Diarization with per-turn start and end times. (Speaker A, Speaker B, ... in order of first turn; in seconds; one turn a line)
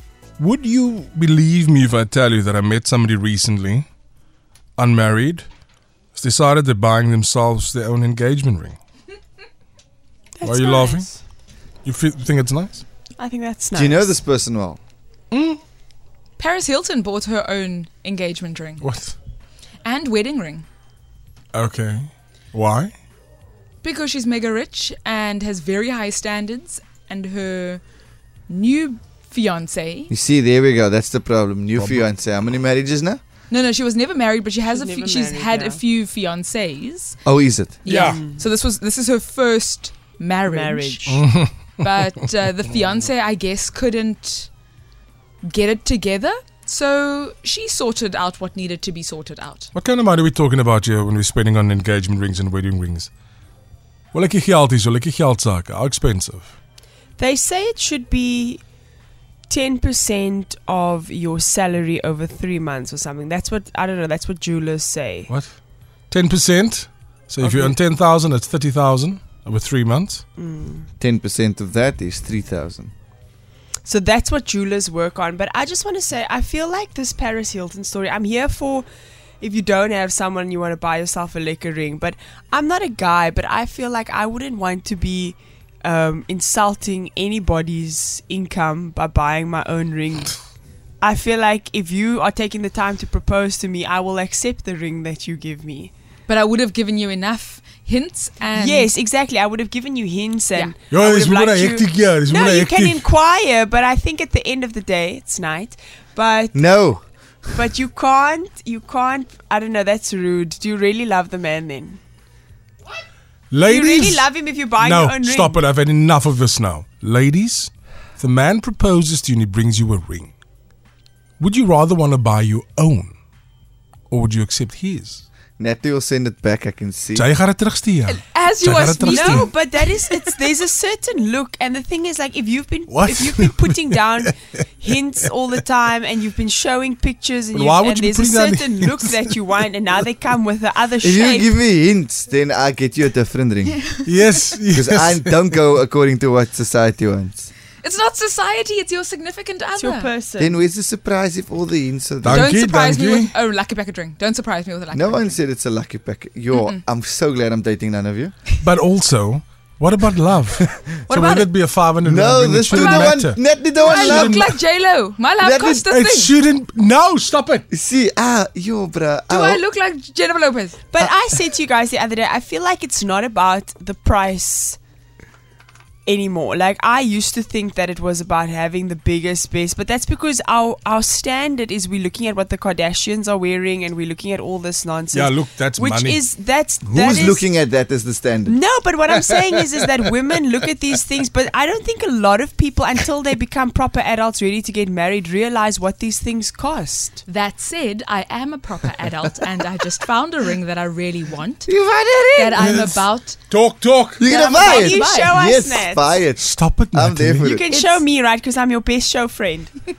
Speaker A: 0.4-3.9
Speaker A: 4.8-5.5
Speaker A: 6.1-8.8
Speaker B: 10.4-11.2
Speaker A: 10.4-11.1
Speaker A: 11.8-12.9
Speaker B: 13.2-14.2
Speaker C: 13.7-14.8
Speaker A: 15.3-15.6
Speaker D: 16.4-18.8
Speaker A: 18.8-19.1
Speaker D: 19.8-20.6
Speaker A: 21.5-22.9
Speaker D: 23.8-27.8
Speaker D: 28.5-30.1
Speaker C: 30.1-33.2
Speaker A: 31.8-32.0
Speaker D: 33.5-37.2
Speaker B: 34.7-35.8
Speaker C: 37.2-37.8
Speaker D: 37.8-44.5
Speaker A: 37.9-38.2
Speaker B: 38.0-38.5
Speaker B: 40.5-41.2
Speaker A: 41.1-41.6
Speaker D: 45.4-49.7
Speaker A: 49.7-53.1
Speaker A: 54.1-56.5
Speaker B: 57.2-58.6
Speaker B: 59.5-65.3
Speaker A: 65.3-65.6
Speaker A: 66.1-70.2
Speaker B: 67.4-67.8
Speaker B: 70.4-70.9
Speaker C: 71.0-72.9
Speaker B: 73.8-78.9
Speaker B: 79.4-90.4
Speaker B: 91.0-95.9
Speaker D: 96.3-98.9
Speaker B: 98.5-106.7
Speaker A: 100.9-103.0
Speaker C: 106.5-107.1
Speaker B: 107.5-112.0
Speaker A: 113.5-120.3
Speaker B: 113.7-115.7
Speaker A: 121.4-123.2
Speaker A: 124.1-125.2
Speaker C: 125.6-127.3
Speaker A: 127.2-129.5
Speaker D: 128.1-129.8
Speaker B: 129.1-141.6
Speaker A: 132.9-134.3
Speaker A: 137.5-139.2
Speaker C: 141.0-143.9
Speaker A: 144.1-145.5
Speaker C: 144.7-147.5
Speaker D: 147.8-150.1
Speaker B: 149.8-150.6
Speaker C: 150.4-152.5
Speaker A: 152.2-153.3
Speaker D: 152.3-155.4
Speaker C: 154.9-158.3
Speaker D: 156.5-156.8
Speaker A: 158.6-164.5
Speaker D: 161.1-161.5
Speaker C: 162.0-164.5
Speaker D: 162.7-163.2
Speaker D: 163.8-166.3
Speaker C: 165.4-165.9
Speaker A: 165.9-167.6
Speaker C: 167.7-169.6
Speaker D: 169.3-170.8
Speaker B: 170.9-174.8
Speaker B: 176.1-187.5
Speaker A: 185.1-186.3
Speaker C: 186.9-188.6
Speaker B: 188.5-197.2
Speaker D: 197.3-201.7
Speaker C: 201.7-202.7
Speaker D: 202.4-203.4
Speaker A: 202.6-203.0
Speaker A: 203.5-204.2
Speaker C: 204.2-207.6
Speaker D: 204.2-205.3
Speaker B: 204.5-206.2
Speaker A: 206.4-207.5
Speaker B: 207.4-209.7
Speaker D: 207.7-208.0